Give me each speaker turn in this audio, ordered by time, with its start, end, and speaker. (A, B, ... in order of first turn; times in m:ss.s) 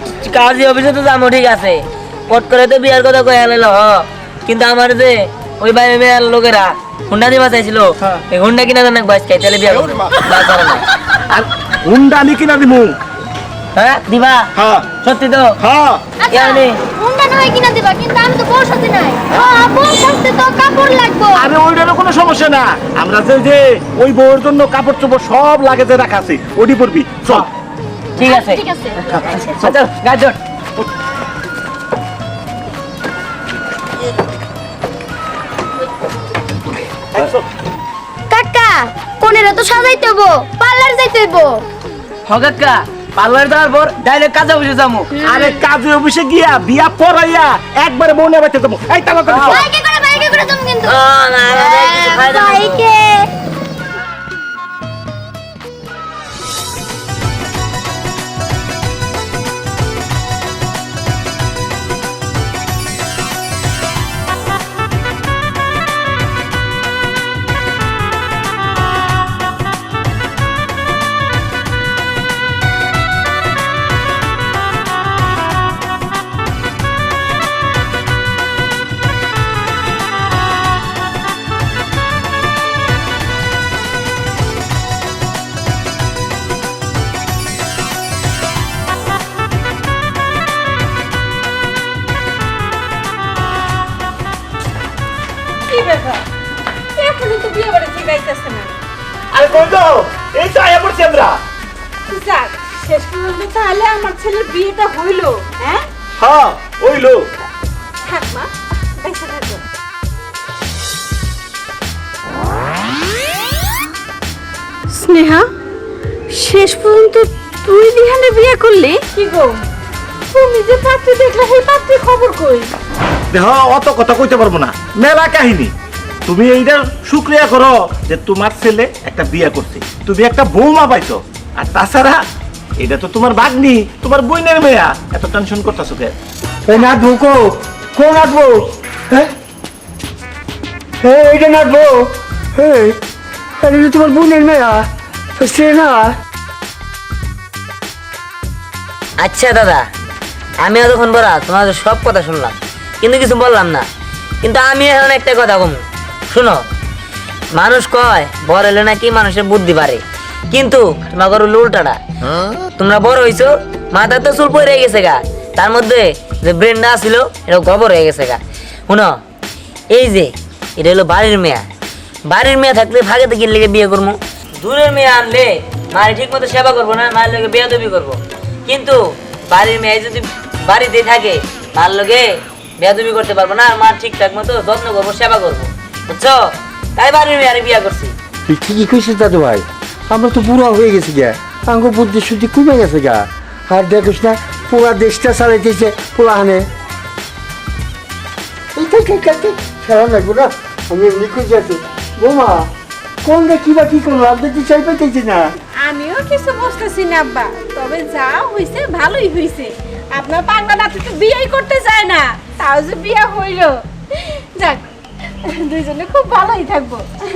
0:00.2-0:10.8 A
0:11.3-0:12.9 B
0:13.7-0:14.5 A
0:14.6-0:14.9 B
0:15.0-0:15.6 A
0:15.6-0:16.0 B
0:16.2-0:21.5 C
0:16.3-0:16.8 A
0:21.3-0:27.5 B
0:28.2-0:29.8 A
0:28.2-0:29.2 C
0:29.5-0:30.4 D
0:37.1-0:37.4 B
0:38.3-0:41.6 C
0:42.3-0:45.1 D
0:45.1-0:45.6 C
0:45.2-0:49.7 B
0:49.5-0:51.0 C
0:50.8-0:52.8 A
0:51.5-0:53.3 C
1:35.7-1:36.2 E
1:37.0-1:38.7 E
1:39.3-1:41.4 B
1:42.1-1:45.8 E
1:46.2-1:47.3 B
1:48.1-1:49.6 E
1:54.9-1:55.5 E
1:56.3-1:59.6 E
2:00.3-2:02.7 E
2:03.3-2:05.7 B
2:06.2-2:12.2 B
2:12.8-2:16.1 B
2:16.6-2:19.3 F
2:21.0-2:23.0 F
2:23.6-2:24.8 F
2:25.4-2:26.1 F
2:29.2-2:29.8 A
2:30.6-2:33.9 A
2:34.4-2:36.6 A
2:37.5-2:42.0 A
2:42.8-2:49.1 A
2:49.9-2:51.6 A
2:52.3-2:59.0 A
2:59.5-3:02.2 A
3:02.8-3:06.4 A
3:07.0-3:08.1 A
3:08.5-3:16.6 F
3:18.7-3:22.7 F
3:23.2-3:25.5 F
3:25.8-3:34.8 E
3:35.4-3:37.0 E